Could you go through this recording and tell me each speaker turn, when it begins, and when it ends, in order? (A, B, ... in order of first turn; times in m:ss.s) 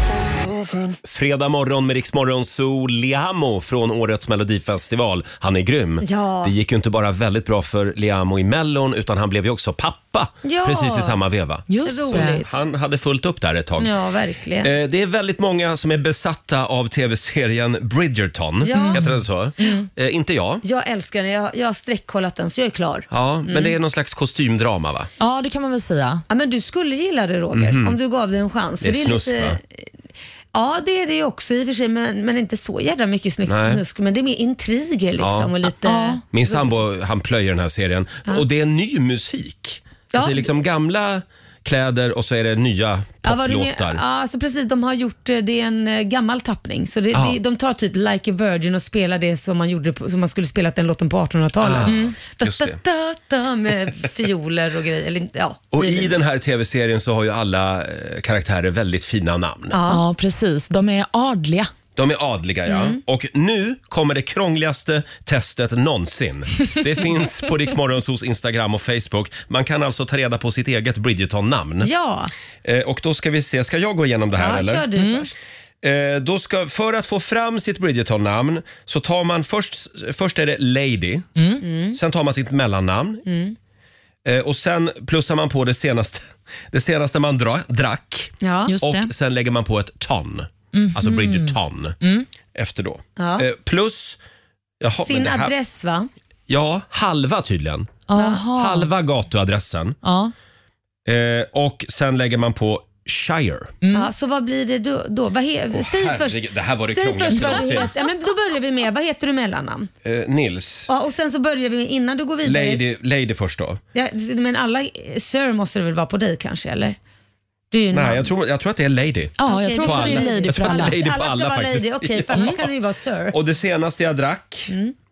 0:01.0-0:13.9 A
0:06.0-0:06.5 B
0:10.4-0:11.2 B
0:11.7-0:12.4 C
0:11.8-0:12.5 B
0:13.8-0:14.7 B
0:14.6-0:20.6 A
0:18.6-0:19.0 B
0:18.7-0:19.9 C
0:20.6-0:23.7 B
0:23.1-0:25.1 A
0:25.2-0:26.2 C
0:26.3-0:29.6 B
0:27.5-0:28.0 A
0:28.8-0:29.6 A
0:30.5-0:36.2 B
0:33.5-0:33.8 A
0:35.2-0:35.5 A
0:35.8-0:36.2 C
0:36.3-0:44.0 A
0:40.1-0:40.5 B
0:43.2-0:56.1 B
0:47.1-0:47.4 A
0:51.6-0:52.8 A
0:51.9-0:52.1 C
0:55.7-0:59.8 A
0:59.7-1:00.0 B
0:59.9-1:01.7 C
1:02.0-1:11.9 A
1:02.7-1:03.0 B
1:11.8-1:12.3 B
1:12.6-1:14.8 A
1:14.4-1:15.3 B
1:15.0-1:15.3 C
1:15.8-1:21.3 A
1:21.4-1:21.6 C
1:21.6-1:22.0 B
1:21.9-1:23.2 A
1:23.3-1:23.5 B
1:24.2-1:32.0 A
1:28.4-1:28.7 B
1:28.7-1:29.1 C
1:30.7-1:32.3 C
1:32.5-1:34.2 A
1:33.2-1:33.4 B
1:34.8-1:35.5 A
1:35.0-1:36.1 B
1:36.5-1:38.0 A
1:38.1-1:38.9 C
1:38.2-1:38.4 B
1:38.5-1:40.0 A
1:40.0-1:40.3 C
1:41.0-1:43.7 A
1:43.8-1:44.1 C
1:43.9-1:49.9 B
1:45.7-1:47.9 A
1:47.3-1:47.8 C
1:50.0-1:50.9 A
1:50.9-1:52.8 B
1:52.4-1:53.8 A
1:53.9-1:57.0 B
1:57.7-1:58.3 B
1:57.9-2:02.7 A
1:59.4-2:01.0 C
1:59.5-2:03.4 B
2:03.3-2:04.7 A